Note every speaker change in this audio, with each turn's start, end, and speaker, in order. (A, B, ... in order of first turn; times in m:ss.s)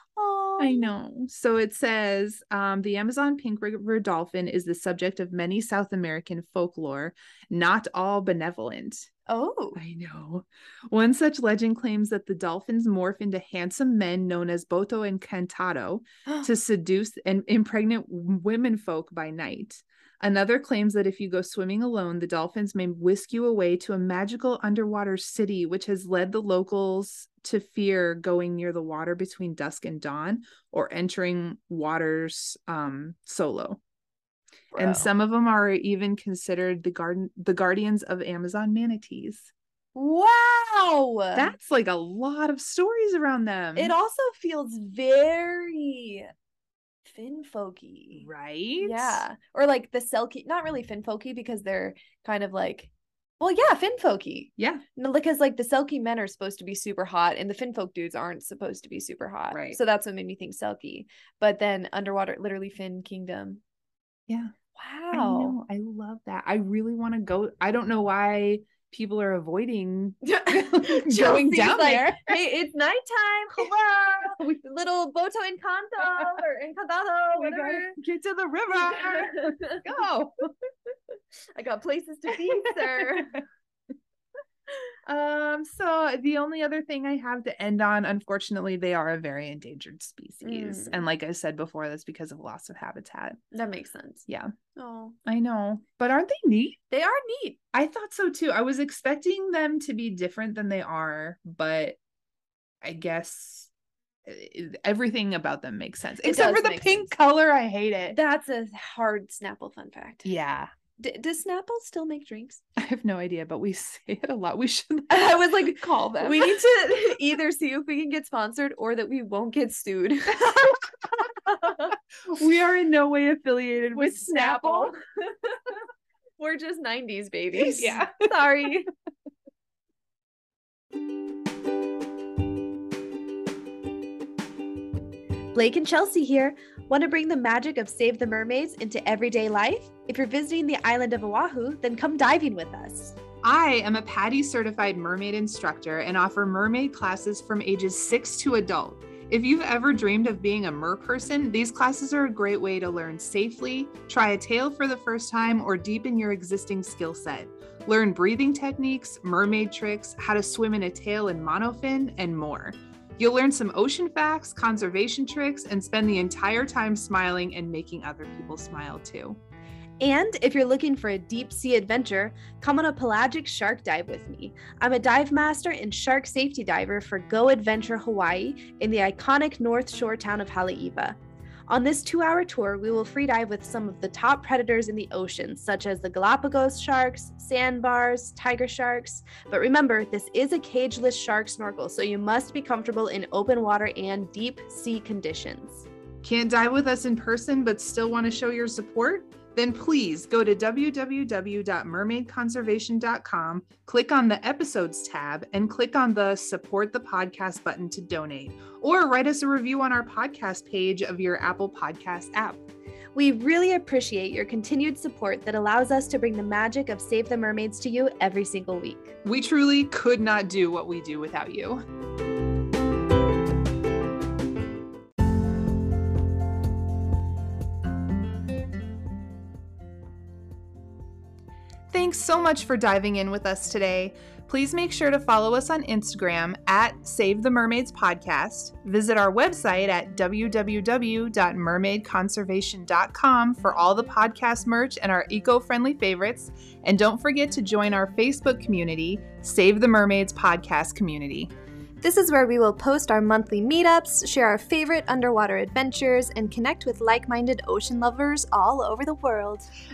0:00.2-0:00.9 A
0:00.6-0:09.1 B
0:09.3-0:09.8 A
0:09.8-0:33.8 B
0:34.7-0:35.1 A
0:34.8-0:39.5 B
0:40.0-0:41.6 A
0:41.4-0:44.0 B
0:43.8-0:46.3 A
0:47.1-0:48.3 A
0:48.2-0:49.2 B
0:48.8-1:03.6 A
0:54.6-0:54.8 B
0:59.5-0:59.8 B
1:04.8-1:05.6 A
1:05.1-1:12.4 B
1:10.2-1:18.0 A
1:13.6-1:14.6 B
1:16.0-1:16.4 B
1:17.4-1:20.3 B
1:18.7-1:19.8 A
1:21.6-1:23.4 A
1:22.3-1:23.4 B
1:25.1-1:33.4 B
1:30.4-1:31.1 A
1:33.5-1:35.2 A
1:35.2-1:36.8 B
1:36.9-1:37.6 A
1:37.7-1:42.0 B
1:42.8-1:43.7 B
1:44.3-1:48.2 B
1:46.2-1:47.1 A
1:48.1-1:50.3 A
1:50.2-1:50.7 B
1:51.0-1:52.6 A
1:52.8-1:56.6 B
1:55.1-2:00.8 A
2:01.4-2:01.9 A
2:02.3-2:04.9 B
2:03.9-2:05.8 A
2:06.4-2:08.9 A
2:07.6-2:08.3 B
2:15.5-2:23.2 A
2:23.4-2:49.4 B
2:50.0-3:01.2 A
3:01.7-3:15.9 A
3:16.2-3:32.6 B
3:33.2-3:39.1 A
3:39.2-3:41.8 B
3:51.9-4:11.5 B
4:12.0-4:19.7 A